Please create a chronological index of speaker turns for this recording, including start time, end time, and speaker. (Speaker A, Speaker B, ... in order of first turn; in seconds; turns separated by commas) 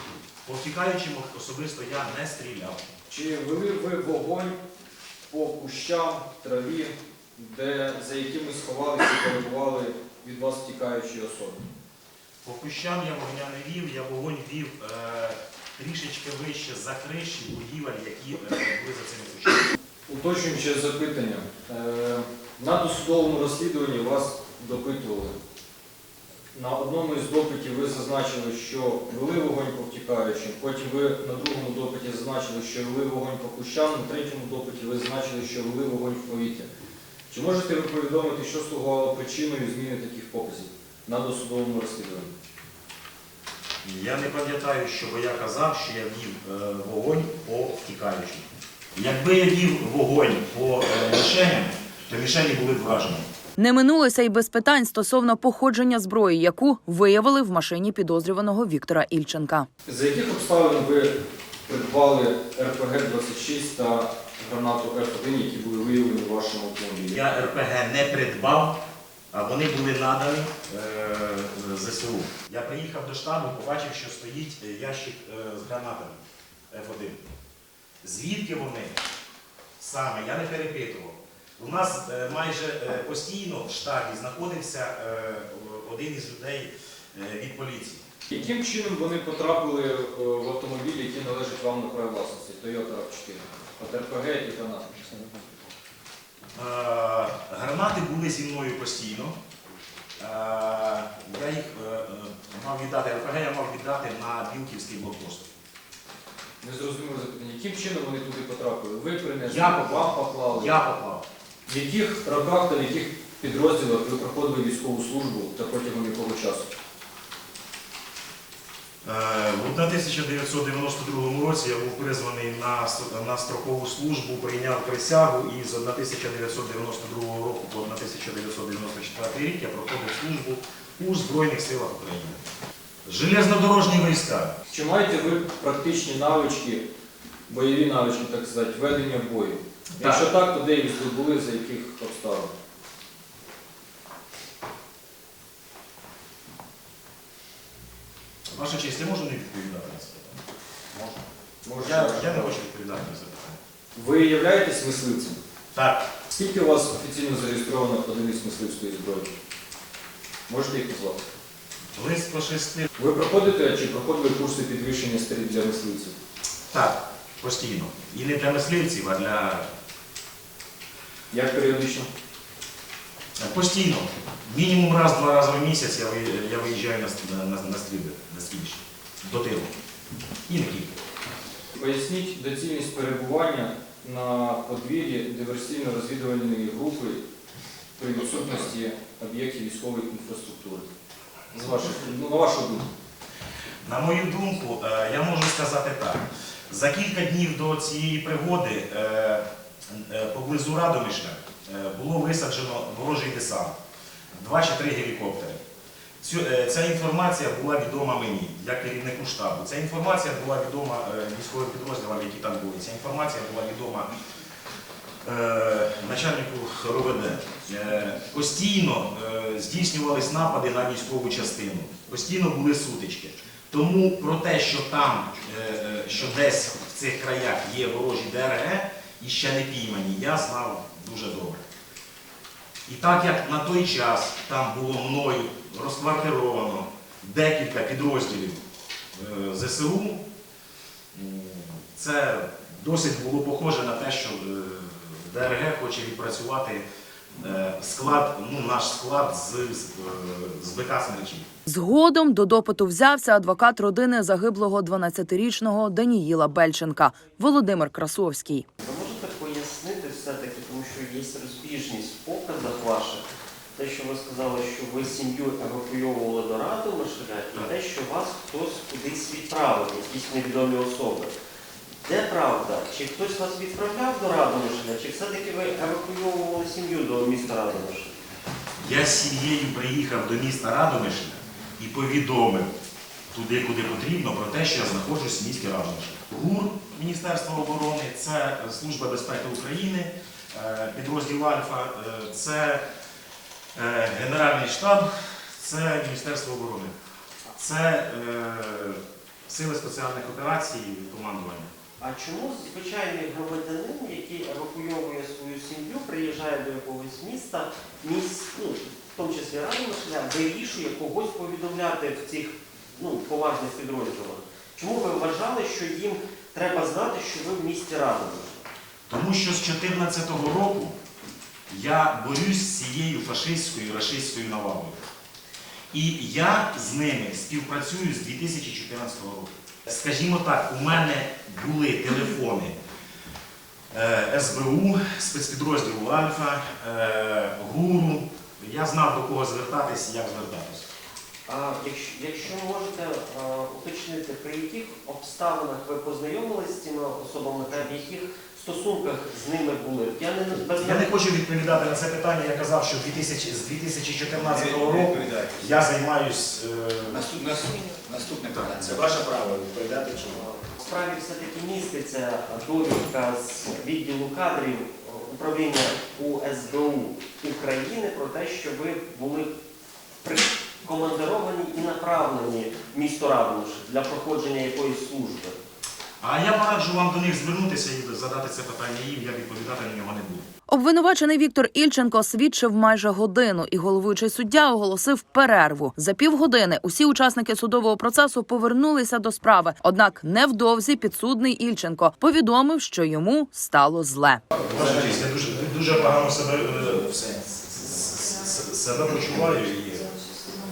Speaker A: 0.4-2.9, Speaker B: 3.1-4.6, Speaker B: 5.3-11.6, Speaker A: 12.4-19.7, Speaker B: 20.1-25.3, Speaker B: 26.5-36.7, Speaker B: 37.3-42.3, Speaker A: 43.8-53.2, Speaker C: 53.6-59.7, Speaker B: 59.9-61.1, Speaker B: 61.6-67.2, Speaker A: 67.1-68.8, Speaker A: 69.3-76.2, Speaker A: 76.7-77.3, Speaker A: 78.0-78.9, Speaker A: 79.8-88.0, Speaker B: 88.3-95.3, Speaker A: 96.5-99.3, Speaker A: 100.2-105.5, Speaker B: 106.6-110.8, Speaker A: 109.5-111.2, Speaker B: 111.7-116.7, Speaker A: 119.0-132.4, Speaker A: 133.0-134.5, Speaker B: 134.7-136.8, Speaker B: 137.5-142.5, Speaker A: 140.0-140.2, Speaker A: 148.5-150.4, Speaker A: 150.9-151.2, Speaker B: 151.6-152.6, Speaker A: 151.8-153.6, Speaker B: 153.9-155.4, Speaker A: 155.7-156.1, Speaker B: 156.3-159.3, Speaker B: 160.5-161.3, Speaker A: 161.9-162.9, Speaker B: 163.0-166.2, Speaker A: 166.7-169.7, Speaker B: 171.3-172.1, Speaker A: 173.4-179.7, Speaker A: 180.5-180.9, Speaker B: 181.7-187.2, Speaker B: 188.0-190.9, Speaker B: 191.5-192.9, Speaker A: 193.8-203.7, Speaker A: 204.3-205.6, Speaker A: 206.2-214.1, Speaker A: 215.2-231.6, Speaker A: 232.8-238.6, Speaker A: 239.1-240.2, Speaker A: 241.1-246.8, Speaker A: 247.4-251.5, Speaker C: 251.7-258.6, Speaker D: 258.8-263.2, Speaker D: 263.8-271.3, Speaker D: 272.0-278.1, Speaker A: 278.8-282.7, Speaker A: 283.3-292.8, Speaker A: 293.7-296.9, Speaker A: 297.5-301.7, Speaker D: 302.0-318.6, Speaker A: 319.1-320.9, Speaker A: 321.7-325.1, Speaker A: 325.9-332.7, Speaker A: 333.9-340.9, Speaker D: 341.4-351.1, Speaker A: 350.8-357.2, Speaker E: 354.6-355.5, Speaker E: 357.2-360.4, Speaker D: 360.2-369.5, Speaker D: 370.2-375.6, Speaker A: 376.2-380.4, Speaker C: 380.7-394.4, Speaker A: 394.6-400.2